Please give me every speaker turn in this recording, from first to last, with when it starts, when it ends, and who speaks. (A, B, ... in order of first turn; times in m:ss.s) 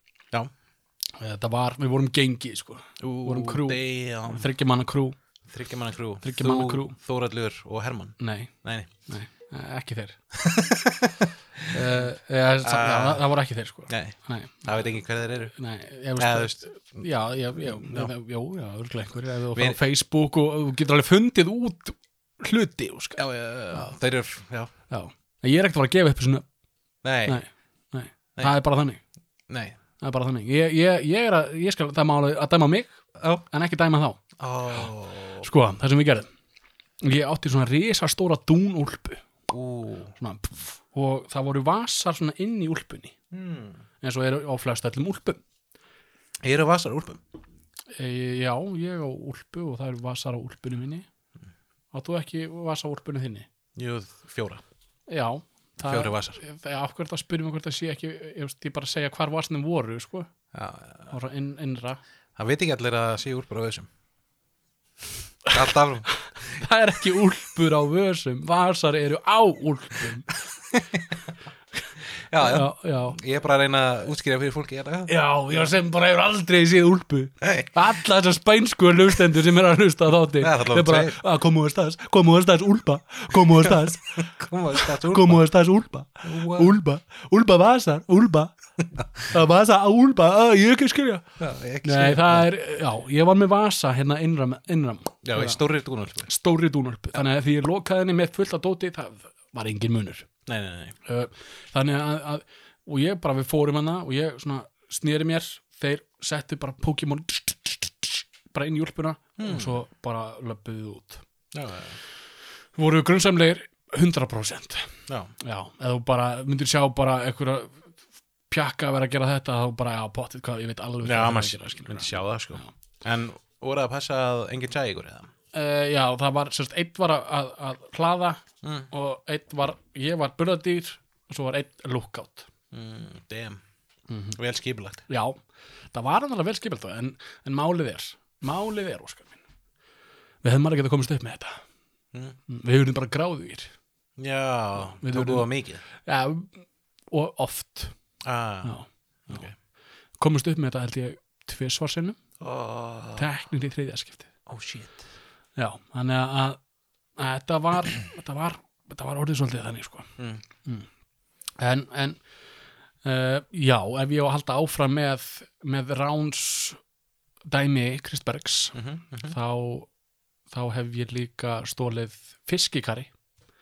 0:01.2-0:05.2 A
0:03.0-0:04.5 B
0:05.5-0:08.9 B
0:06.2-0:07.0 A
0:08.2-0:08.5 A
0:09.1-0:10.2 A
0:10.3-0:12.0 B
0:11.7-0:14.7 A
0:12.6-0:13.2 B
0:13.9-0:15.5 B
0:15.5-0:23.2 A
0:16.2-0:16.6 B
0:17.7-0:18.1 B
0:19.5-0:19.8 B
0:23.2-0:24.7 B
0:24.9-0:26.4 A
0:27.0-0:27.4 B
0:27.3-0:29.0 A
0:29.5-0:29.8 B
0:30.0-0:33.0 A
0:33.2-0:33.4 B
0:33.5-0:34.2 A
0:34.4-0:35.5 B
0:35.4-0:36.3 A
0:37.0-0:39.2 A
0:39.5-0:40.1 B
0:40.2-0:43.2 A
0:43.3-0:43.8 B
0:44.0-0:45.4 A
0:46.4-0:47.2 B
0:47.9-0:51.0 A
0:51.9-0:53.5 A
0:53.8-0:54.6 B
0:55.1-1:00.3 A
0:55.8-0:56.4 B
1:00.5-1:01.1 B
1:01.1-1:02.0 A
1:02.4-1:03.9 B
1:05.5-1:06.1 B
1:06.4-1:10.3 A
1:10.7-1:11.2 B
1:12.3-1:15.1 B
1:12.4-1:13.2 A
1:15.1-1:28.5 A
1:17.4-1:17.7 B
1:20.4-1:21.2 B
1:23.6-1:25.4 B
1:26.2-1:26.8 B
1:29.2-1:31.2 A
1:31.4-1:32.5 B
1:31.8-1:35.6 A
1:35.2-1:36.3 B
1:36.3-1:40.3 A
1:40.4-1:41.0 B
1:41.0-1:51.2 A
1:49.4-1:49.8 B
1:51.5-1:52.0 B
1:52.8-1:54.9 A
1:55.4-1:57.8 A
1:58.5-2:02.7 A
2:01.0-2:05.3 B
2:05.5-2:12.5 A
2:08.6-2:08.9 B
2:12.7-2:13.6 B
2:14.1-2:14.4 A
2:14.3-2:15.0 B
2:15.1-2:15.4 A
2:15.9-2:19.4 A
2:20.4-2:21.6 A
2:22.5-2:23.7 A
2:24.2-2:25.8 B
2:25.0-2:27.9 A
2:28.2-2:28.8 B
2:28.6-2:29.5 A
2:29.3-2:29.5 B
2:30.2-2:32.2 A
2:32.4-2:33.3 B
2:33.2-2:34.3 A
2:34.5-2:35.0 B
2:35.6-2:36.6 A
2:37.2-2:40.1 A
2:40.2-2:40.4 B
2:41.6-2:42.2 A
2:43.0-2:46.8 A
2:47.5-2:49.9 A
2:48.7-2:49.4 B
2:50.5-2:53.1 A